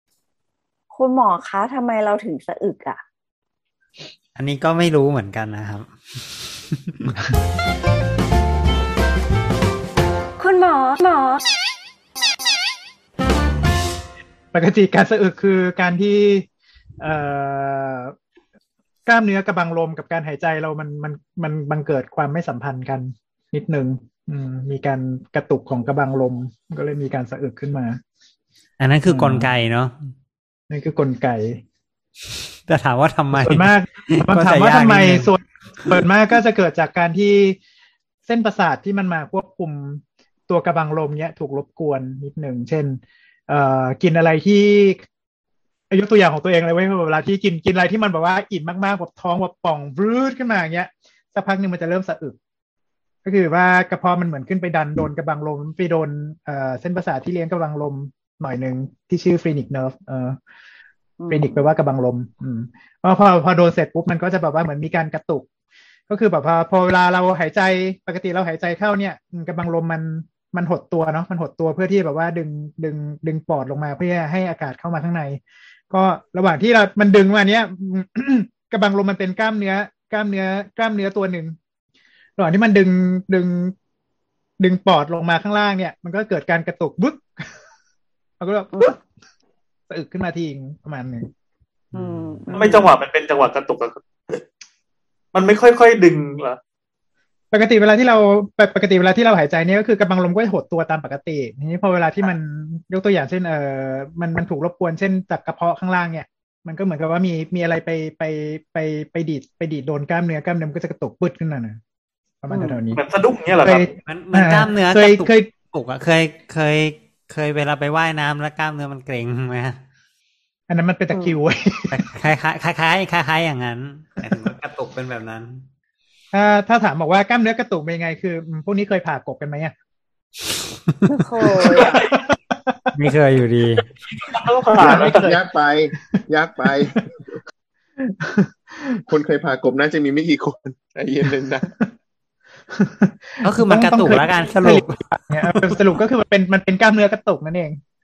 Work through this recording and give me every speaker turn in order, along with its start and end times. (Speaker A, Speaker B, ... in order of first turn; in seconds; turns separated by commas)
Speaker A: 0.9-3.0, Speaker B: 4.3-7.2, Speaker A: 10.4-11.4, Speaker C: 14.5-16.4, Speaker C: 17.0-18.1, Speaker C: 19.1-28.0, Speaker B: 28.8-30.1, Speaker C: 29.1-29.5, Speaker C: 30.7-31.6, Speaker B: 32.7-35.3, Speaker C: 33.3-37.6, Speaker C: 38.2-45.0, Speaker C: 45.9-52.3, Speaker C: 53.2-60.4, Speaker A: 61.2-61.6, Speaker C: 61.3-65.4, Speaker C: 66.1-81.5, Speaker C: 82.4-83.7, Speaker C: 84.6-87.4, Speaker C: 88.4-89.0, Speaker C: 89.9-91.3, Speaker B: 91.9-92.4, Speaker A: 91.9-92.9, Speaker D: 92.5-94.4, Speaker D: 95.3-96.6, Speaker C: 97.5-111.8, Speaker C: 112.4-113.0, Speaker D: 112.9-113.8, Speaker C: 113.6-115.5, Speaker B: 114.0-119.8, Speaker C: 120.7-122.0, Speaker B: 121.9-125.7, Speaker C: 126.3-129.7, Speaker A: 131.1-131.9, Speaker C: 131.7-132.7, Speaker D: 131.8-132.1, Speaker B: 132.9-133.9, Speaker D: 134.1-135.3, Speaker C: 134.8-135.4, Speaker E: 134.8-137.3, Speaker C: 138.0-138.9, Speaker E: 139.1-141.7, Speaker C: 142.7-147.8, Speaker B: 143.4-145.7